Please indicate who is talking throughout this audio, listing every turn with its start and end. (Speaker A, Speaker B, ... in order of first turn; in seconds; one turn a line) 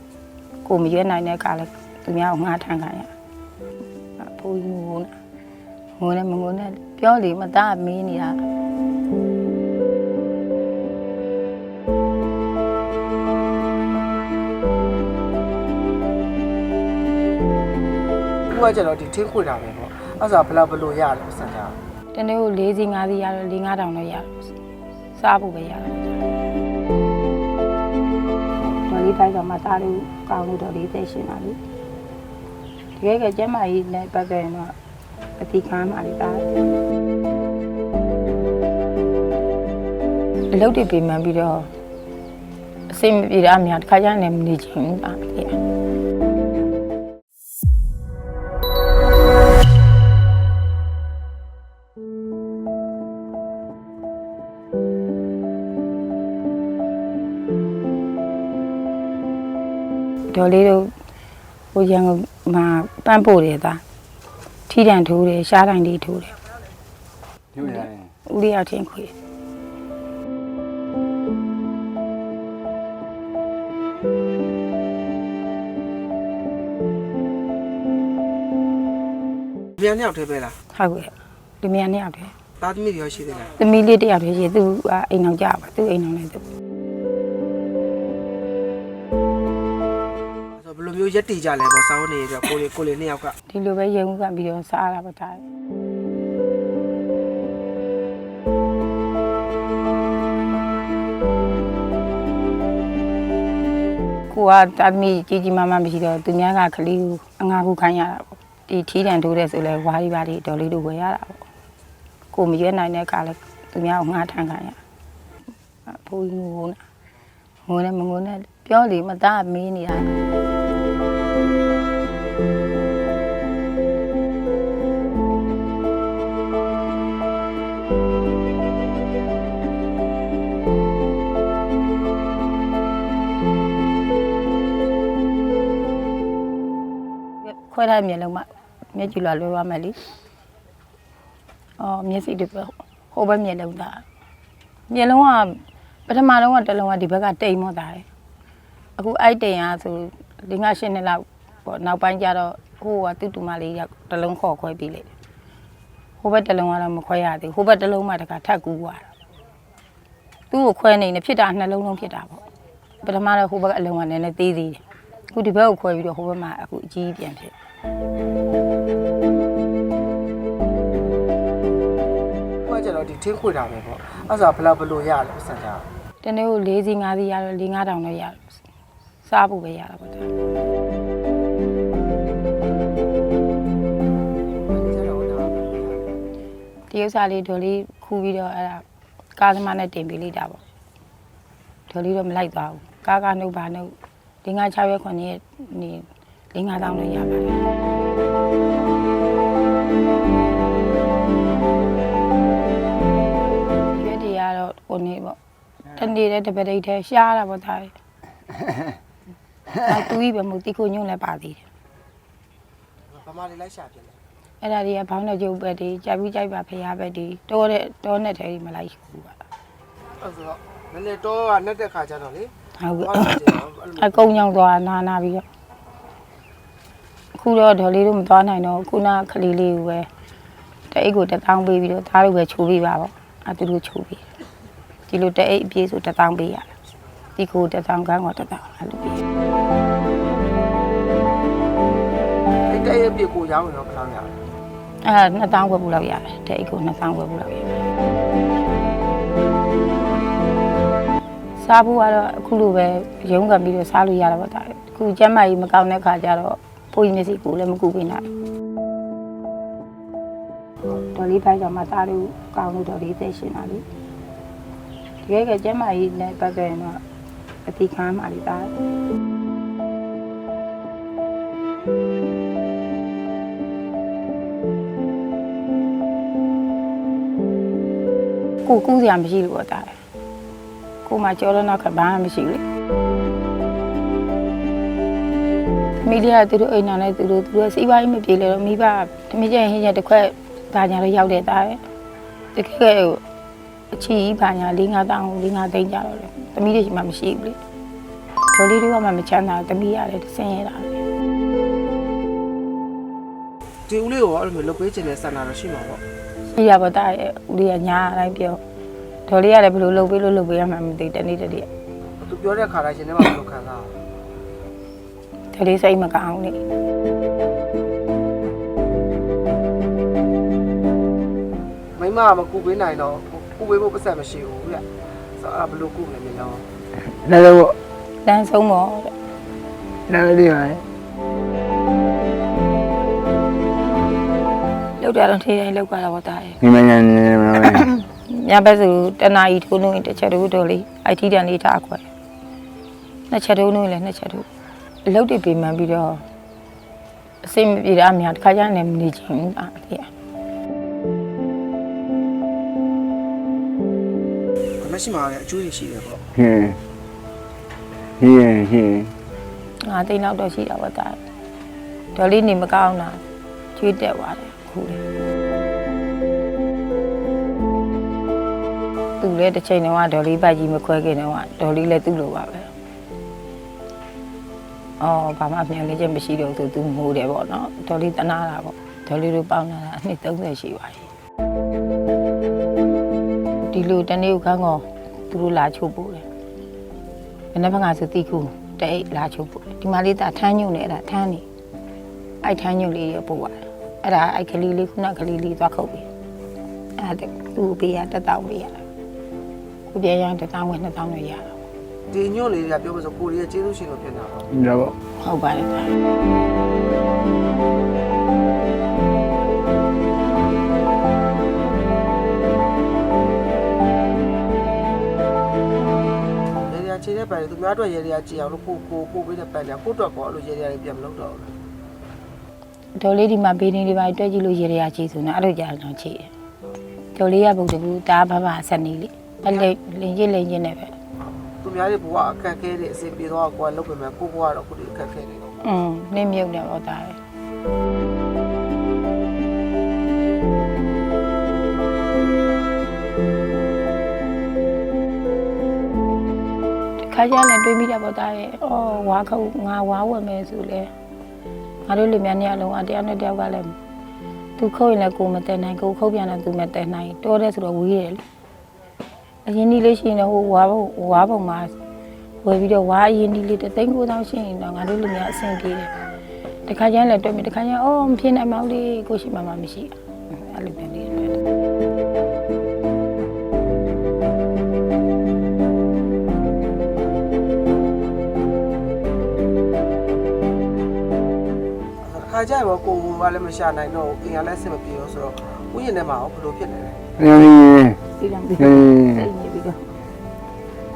Speaker A: 0.6-3.1
Speaker A: 4.2-5.2
Speaker A: 6.0-8.4
Speaker B: 18.5-21.8
Speaker A: 22.1-24.3
Speaker A: 25.2-26.2
Speaker A: 28.8-31.6
Speaker A: 33.0-34.8
Speaker A: 35.4-36.5
Speaker A: 40.5-41.7
Speaker A: 42.9-45.6
Speaker A: 60.3-60.9
Speaker A: 61.7-63.8
Speaker A: 64.7-66.4
Speaker C: 67.6-68.1
Speaker A: 67.6-69.1
Speaker B: 79.8-80.6
Speaker A: 80.7-82.3
Speaker B: 82.6-83.6
Speaker A: 83.6-86.5
Speaker B: 90.6-93.3
Speaker A: 93.5-95.5
Speaker A: 104.3-111.4
Speaker A: 112.3-114.8
Speaker A: 115.8-116.8
Speaker A: 117.7-120.1
Speaker A: 137.5-140.1
Speaker A: 141.8-144.1
Speaker A: 144.9-148.1
Speaker A: 149.0-155.1
Speaker A: 156.2-159.1
Speaker A: 160.5-162.4
Speaker A: 163.0-167.6
Speaker B: 172.6-175.9
Speaker A: 176.2-178.4
Speaker A: 179.2-180.3
Speaker B: 184.7-186.0
Speaker A: 186.9-188.8
Speaker A: 189.4-190.6
Speaker A: 191.9-197.6
Speaker A: 203.9-205.4
Speaker A: 205.9-207.9
Speaker A: 209.7-211.7
Speaker B: 213.1-214.2
Speaker A: 214.6-219.4
Speaker B: 220.2-224.4
Speaker A: 222.8-225.5
Speaker A: 227.3-230.1
Speaker A: 230.9-234.3
Speaker A: 235.1-236.7
Speaker A: 237.4-239.2
Speaker B: 242.7-244.4
Speaker A: 245.0-247.7
Speaker A: 251.6-258.3
Speaker A: 260.9-263.9
Speaker A: 265.2-267.0
Speaker A: 267.6-268.7
Speaker A: 278.6-280.0
Speaker A: 281.0-282.6
Speaker A: 286.0-291.8
Speaker A: 292.5-293.2
Speaker A: 293.9-297.6
Speaker A: 298.5-301.0
Speaker B: 303.9-306.0
Speaker A: 306.5-308.6
Speaker A: 309.3-311.7
Speaker B: 312.2-314.0
Speaker A: 315.5-316.6
Speaker B: 322.0-326.7
Speaker C: 327.3-327.8
Speaker A: 328.2-329.1
Speaker C: 330.1-330.8
Speaker A: 335.0-336.6
Speaker C: 336.6-337.8
Speaker A: 337.6-342.1
Speaker A: 343.3-344.5
Speaker A: 345.0-346.2
Speaker A: 347.4-350.1
Speaker B: 354.8-356.3
Speaker C: 356.5-356.8
Speaker C: 358.2-359.1
Speaker A: 359.8-361.2
Speaker A: 362.1-363.2
Speaker A: 363.8-365.0
Speaker A: 369.2-372.8
Speaker A: 375.0-381.1
Speaker A: 383.7-386.3
Speaker A: 387.5-391.4
Speaker A: 392.4-396.1
Speaker A: 397.0-398.8
Speaker A: 399.9-401.6
Speaker B: 402.1-404.6
Speaker A: 405.2-405.9
Speaker B: 416.5-421.5
Speaker A: 422.9-426.3
Speaker A: 427.1-431.0
Speaker B: 431.2-435.6
Speaker A: 435.6-437.2
Speaker A: 447.0-450.9
Speaker A: 451.9-453.8
Speaker A: 454.6-458.2
Speaker A: 459.4-461.7
Speaker A: 462.4-465.9
Speaker A: 466.7-471.4
Speaker B: 482.0-487.4
Speaker C: 487.4-488.0
Speaker A: 488.2-489.9